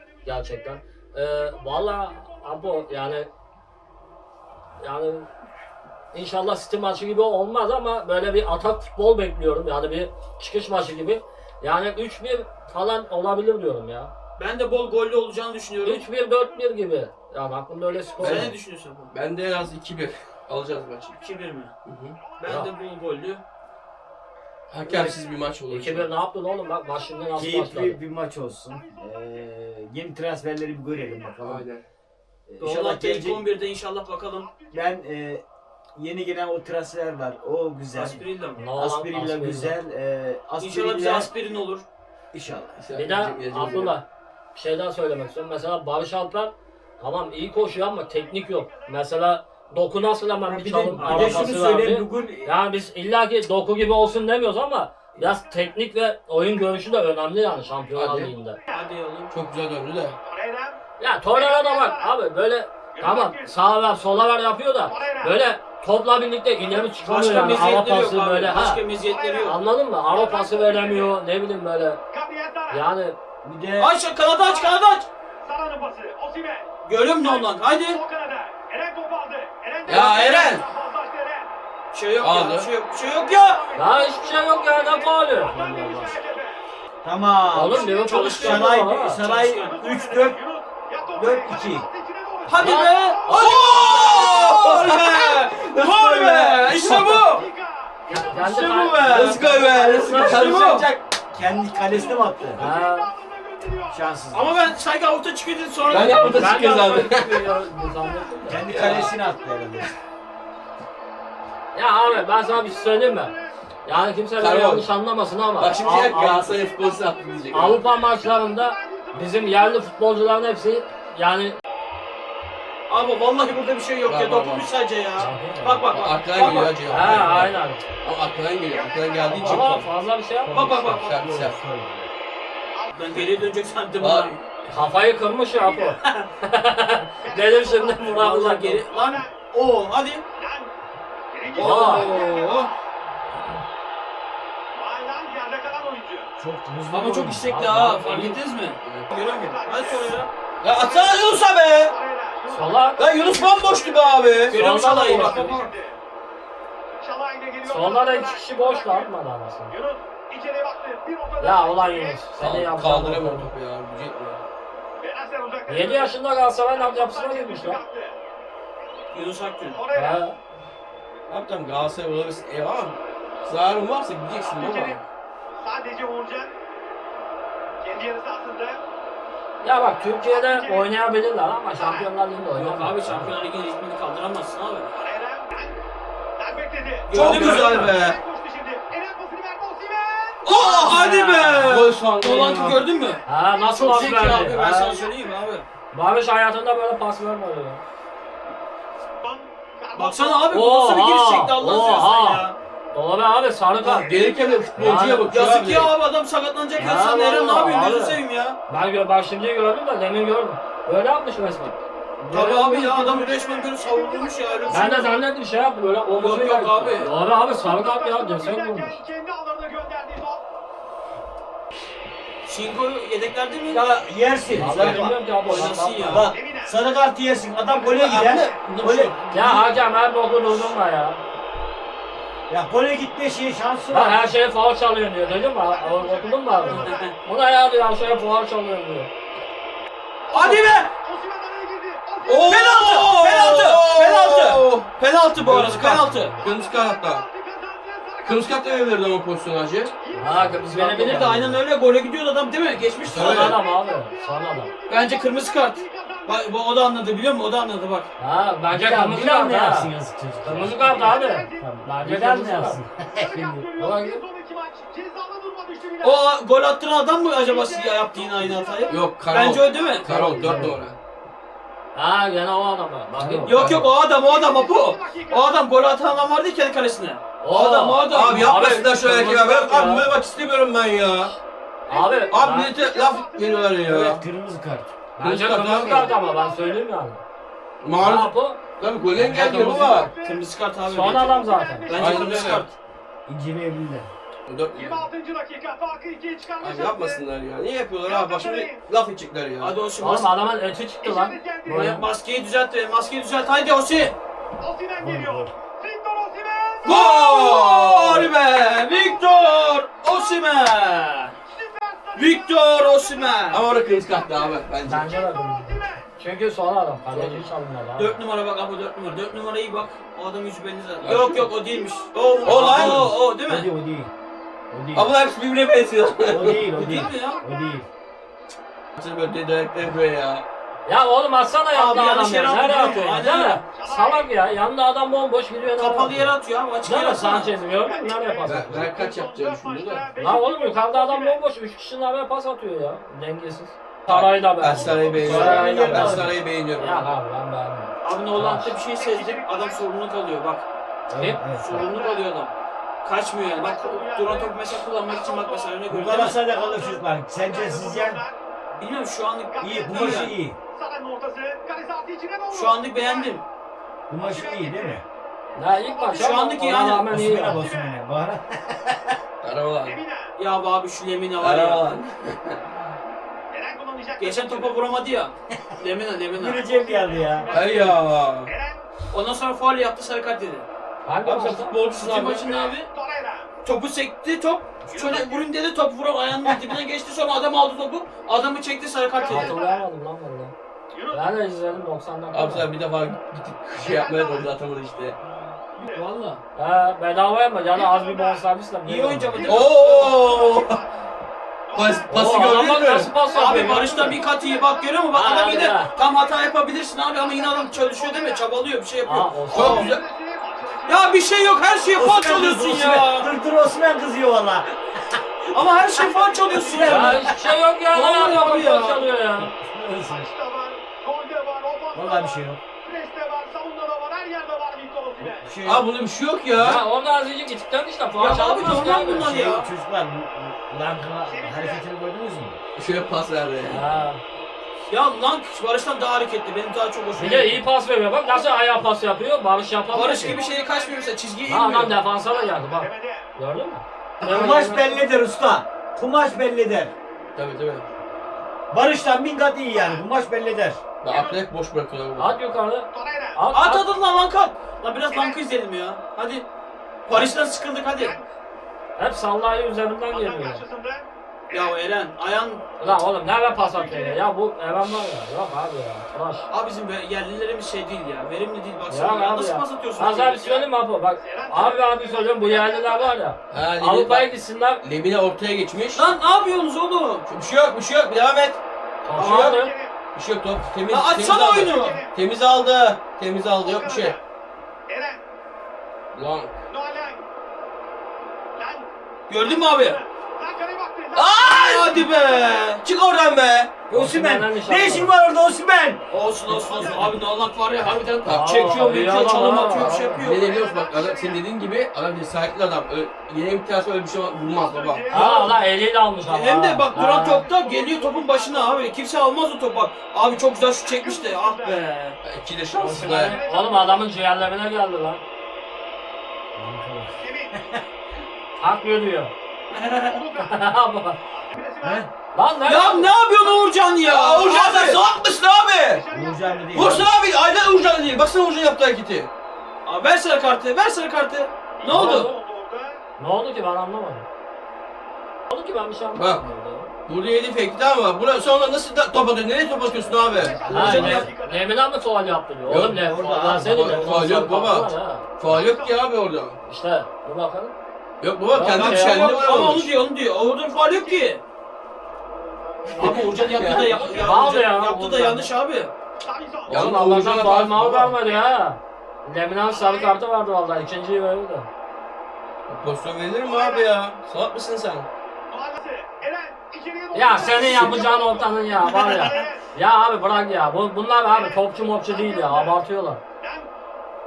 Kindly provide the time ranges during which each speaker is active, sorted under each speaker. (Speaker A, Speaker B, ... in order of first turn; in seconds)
Speaker A: 0.2-0.6, 1.4-3.1, 18.0-18.4, 21.0-21.5, 22.1-23.0, 26.5-27.4, 28.6-29.5, 30.9-31.4, 34.4-34.9, 47.9-49.0, 55.2-55.8, 60.2-60.8, 61.3-62.1, 62.9-63.6, 64.8-65.3, 69.0-71.2, 72.1-72.8, 74.4-74.8, 75.4-81.5, 82.8-86.6, 87.7-88.3, 89.5-95.5, 97.0-98.3, 101.5-104.0, 105.8-106.2, 106.8-110.0, 112.1-113.5, 115.6-119.8, 128.7-129.8, 135.6-136.0, 137.2-138.3, 138.9-139.4, 140.3-140.7, 141.3-142.8, 144.7-146.3, 149.1-150.2, 150.7-156.0, 157.0-159.1, 159.7-162.3, 165.0-166.1, 166.7-168.2, 169.7-170.2, 174.4-175.0, 175.6-176.5, 177.8-178.8, 180.3-180.9, 181.7-182.1, 184.9-185.8, 186.4-190.5, 194.6-195.3, 199.2-200.6, 203.9-205.1, 212.4-215.2, 217.6-220.4, 226.3-226.8, 235.2-237.1, 240.3-243.8, 246.3-249.0, 250.0-250.7, 253.3-256.4, 260.5-261.7, 263.1-266.3, 267.4-270.1, 274.1-275.7, 281.9-283.8, 285.7-286.9, 289.3-290.4, 291.1-292.6, 294.7-297.2, 298.0-298.8, 301.0-301.9, 304.6-306.9, 310.1-310.4, 311.5-314.6, 315.4-316.1, 321.5-322.8, 326.8-327.8, 333.7-334.3, 337.6-341.4, 344.7-345.6, 348.9-349.9, 351.7-352.3, 353.5-358.4, 359.5-363.4, 364.1-365.0, 365.7-366.7, 367.5-367.9, 369.8-370.3, 373.5-374.8, 376.5-378.8, 382.4-383.5, 384.9-385.5, 389.1-389.9, 390.9-391.2, 393.8-394.5, 395.8-396.1, 397.7-398.4, 399.3-400.9, 401.7-408.5, 409.5-412.3, 416.0-417.1, 420.1-425.6, 431.2-431.9, 438.2-438.5, 439.9-441.2, 442.2-443.3, 449.7-450.0, 451.1-451.4, 452.9-453.4, 455.1-455.4, 457.9-458.2, 460.1-461.8, 463.5-464.2, 471.2-473.1, 479.2-480.0, 481.5-482.1, 483.6-484.2, 484.9-485.2, 486.7-487.2, 488.6-492.0, 496.5-497.1, 500.4-501.4, 504.4-505.4, 507.0-508.9, 510.8-511.8, 512.9-514.1, 517.2-517.7, 520.0-520.6, 521.3-522.0, 525.8-527.0, 531.8-533.0, 540.2-541.7, 545.5-546.1, 550.8-551.3, 556.2-556.9, 558.2-558.5, 559.7-560.2, 563.4-563.9, 565.5-569.6, 571.3-572.8, 573.4-573.7
Speaker B: 0.2-3.3, 4.8-5.3, 6.1-14.1, 15.8-18.5, 22.4-22.7, 25.7-28.0, 38.5-39.8, 42.9-58.6, 61.0-68.8, 69.3-72.0, 72.7-73.2, 83.8-86.2, 87.5-89.2, 92.6-93.8, 98.1-100.6, 102.6-103.1, 106.1-109.1, 111.7-113.3, 113.8-116.5, 117.5-121.6, 125.2-125.8, 126.9-127.8, 129.3-130.6, 134.7-138.8, 141.6-142.2, 147.4-148.4, 152.5-153.0, 154.5-155.5, 157.7-159.7, 161.4-163.5, 165.7-167.8, 169.9-170.4, 179.6-183.3, 190.5-191.8, 193.2-195.0, 195.9-197.8, 200.5-204.2, 204.7-205.3, 206.8-212.8, 214.7-219.0, 224.5-226.3, 228.8-231.2, 233.9-239.1, 250.2-251.6, 253.1-254.7, 258.2-259.9, 260.4-262.8, 263.8-264.2, 270.1-270.8, 271.9-273.7, 277.4-279.0, 281.9-282.7, 285.2-287.2, 288.0-290.1, 290.9-292.7, 300.0-302.1, 305.0-305.4, 314.9-318.1, 330.9-336.3, 336.8-338.9, 340.2-348.8, 351.1-351.4, 365.6-367.6, 381.0-381.8, 389.2-390.5, 391.1-392.7, 396.5-399.3, 402.1-404.2, 405.1-405.9, 409.0-409.9, 416.8-419.5, 426.6-429.2, 433.7-434.2, 437.2-440.4, 441.5-445.0, 452.2-453.9, 459.0-460.6, 462.8-466.5, 468.9-474.8, 479.0-479.7, 493.9-495.1, 498.2-500.2, 505.1-507.4, 512.8-515.2, 518.6-519.3, 520.4-521.2, 522.3-523.1, 531.9-532.3, 533.2-534.3, 535.5-536.9, 540.6-545.3, 546.6-547.7, 548.5-549.8, 553.8-555.5, 556.7-561.7, 567.1-573.2
Speaker C: 14.4-16.1, 18.2-19.1, 21.1-21.7, 22.4-23.4, 32.6-34.5, 37.9-38.6, 40.6-41.8, 50.5-51.6, 58.7-59.3, 66.8-69.5, 73.8-75.1, 76.8-78.0, 80.0-80.5, 81.9-83.7, 87.8-89.8, 92.5-97.5, 100.0-100.9, 104.3-106.8, 122.9-126.8, 130.5-131.2, 132.9-134.3, 138.0-140.2, 141.5-142.7, 146.9-150.3, 154.5-155.7, 169.1-169.8, 182.5-184.9, 187.1-187.9, 190.4-195.7, 199.9-202.6, 205.2-208.6, 212.2-215.2, 216.2-217.1, 222.4-223.8, 224.7-226.3, 228.4-229.7, 236.7-237.1, 240.3-240.9, 242.4-246.4, 250.6-253.6, 254.9-258.1, 266.0-270.4, 273.4-280.1, 290.1-291.3, 291.9-292.7, 299.6-300.3, 301.7-304.1, 306.8-311.4, 312.1-313.6, 317.9-323.7, 326.6-327.4, 331.7-333.6, 335.7-337.5, 348.0-350.6, 351.5-352.5, 353.0-356.4, 358.8-360.3, 362.5-363.4, 366.1-367.1, 370.4-371.9, 374.2-376.6, 379.1-380.6, 381.9-382.9, 383.6-389.6, 395.8-396.4, 398.8-400.1, 403.3-409.9, 410.9-412.8, 415.5-417.2, 417.9-419.1, 428.2-429.7, 434.9-437.6, 439.9-441.9, 453.5-456.4, 457.1-458.1, 461.5-462.6, 466.5-470.6, 475.9-477.2, 479.1-479.5, 480.9-482.0, 489.3-490.0, 491.4-492.8, 496.1-500.5, 505.1-505.6, 506.2-512.2, 519.7-520.2, 522.6-525.1, 529.8-532.3, 540.7-541.2, 548.7-551.4, 552.9-555.9
Speaker D: 18.2-18.5, 19.1-21.1, 21.8-22.1, 24.7-26.1, 31.4-31.8, 42.8-43.9, 57.9-58.3, 59.3-60.2, 79.8-80.6, 82.2-82.7, 93.3-97.3, 98.1-101.0, 105.9-107.5, 108.7-109.1, 114.4-114.8, 115.6-117.8, 124.0-124.7, 125.9-129.9, 130.5-131.6, 134.0-134.4, 148.8-149.1, 150.6-151.9, 153.0-154.6, 162.3-164.4, 171.3-175.0, 187.1-188.2, 191.6-192.8, 203.8-205.9, 227.8-228.6, 242.2-247.2, 248.2-249.9, 253.1-253.5, 268.9-270.9, 273.3-273.9, 278.1-281.3, 282.3-284.2, 285.2-286.1, 287.8-290.1, 291.9-292.6, 294.5-295.1, 296.6-299.7, 306.9-308.3, 313.5-315.2, 317.1-317.4, 321.0-321.5, 322.4-323.1, 324.9-326.8, 329.0-330.4, 338.4-340.1, 344.1-347.1, 369.4-370.0, 371.4-372.6, 377.5-378.5, 381.2-382.6, 392.3-395.2, 399.4-400.8, 401.7-403.2, 409.5-410.0, 412.5-413.3, 425.6-426.8, 432.8-433.8, 447.4-447.9, 451.0-452.3, 473.5-476.0, 477.3-478.6, 479.1-479.6, 480.1-484.1, 486.1-486.5, 491.1-492.0, 492.8-493.9, 498.2-498.7, 500.1-505.1, 512.2-513.4, 524.0-526.0, 526.7-529.3, 536.1-536.4, 537.1-540.6, 542.7-542.9, 543.6-546.6, 548.2-549.9, 553.0-554.4, 556.7-558.1, 562.7-565.1, 567.4-568.0
Speaker E: 24.8-25.2, 27.4-31.7, 32.5-33.5, 34.7-35.4, 35.9-38.2, 38.7-41.3, 42.3-42.8, 50.9-52.5, 73.4-73.9, 87.0-90.4, 91.1-91.8, 101.3-102.7, 103.9-104.6, 108.5-109.9, 130.5-132.1, 146.4-147.4, 223.7-225.1, 226.0-229.2, 232.5-234.3, 258.7-263.7, 270.1-270.8, 283.9-284.9, 293.2-294.1, 322.5-324.1, 324.7-325.1, 326.2-327.9, 345.1-346.4, 351.1-351.8, 355.9-358.2, 359.6-360.6, 364.1-365.0, 366.9-369.1, 376.3-377.5, 412.0-415.2, 416.5-417.4, 419.4-420.3, 421.9-422.6, 425.2-425.9, 428.9-432.6, 444.2-446.9, 448.7-450.8, 493.9-496.0, 516.5-517.8, 521.8-522.1, 526.1-527.1, 540.5-541.3, 542.7-544.3